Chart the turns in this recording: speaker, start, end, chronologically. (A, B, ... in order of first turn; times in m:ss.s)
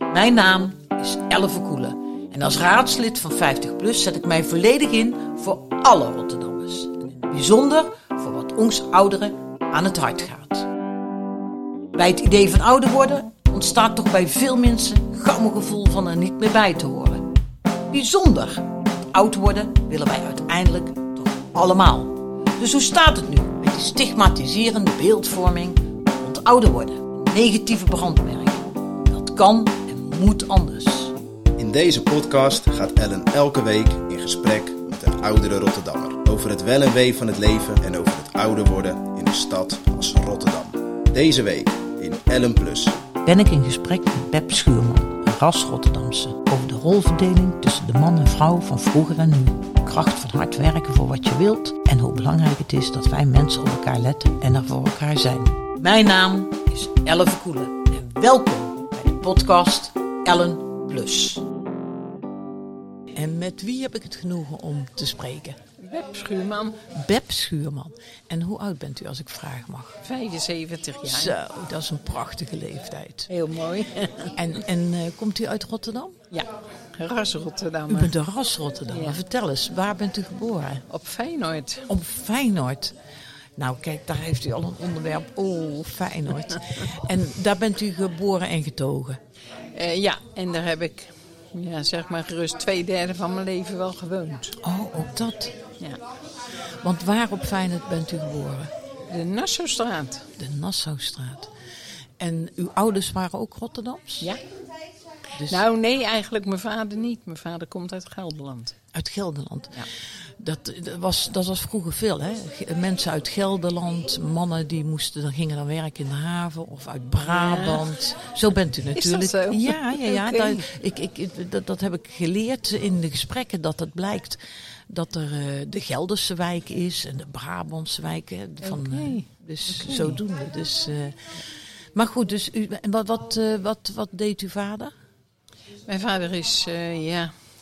0:00.1-0:10.7 A
0:12.0-0:17.4 A
0:17.9-0:31.2 A
0:31.6-0:43.0 B
0:43.2-1:01.4 A
1:03.1-1:05.6 A
1:05.8-1:06.8 C
1:06.9-1:10.0 A
1:10.0-1:11.4 C
1:11.1-1:13.3 A
1:13.3-1:14.4 C
1:14.4-1:16.2 A
1:16.3-1:18.1 C
1:17.9-1:20.8 A
1:18.9-1:19.2 C
1:20.9-1:21.9 C
1:21.9-1:23.0 A
1:23.6-1:29.2 A
1:29.7-1:34.6 C
1:34.6-1:35.6 A
1:36.8-1:38.7 A
1:39.1-1:40.3 C
1:40.4-1:41.5 A
1:42.2-1:44.3 A
1:45.4-1:45.6 A
1:45.4-1:48.8 C
1:48.9-2:11.4 A
1:57.3-1:57.9 C
1:58.9-2:00.7 C
2:08.6-2:10.2 C
2:11.9-2:14.9 A
2:15.9-2:17.3 C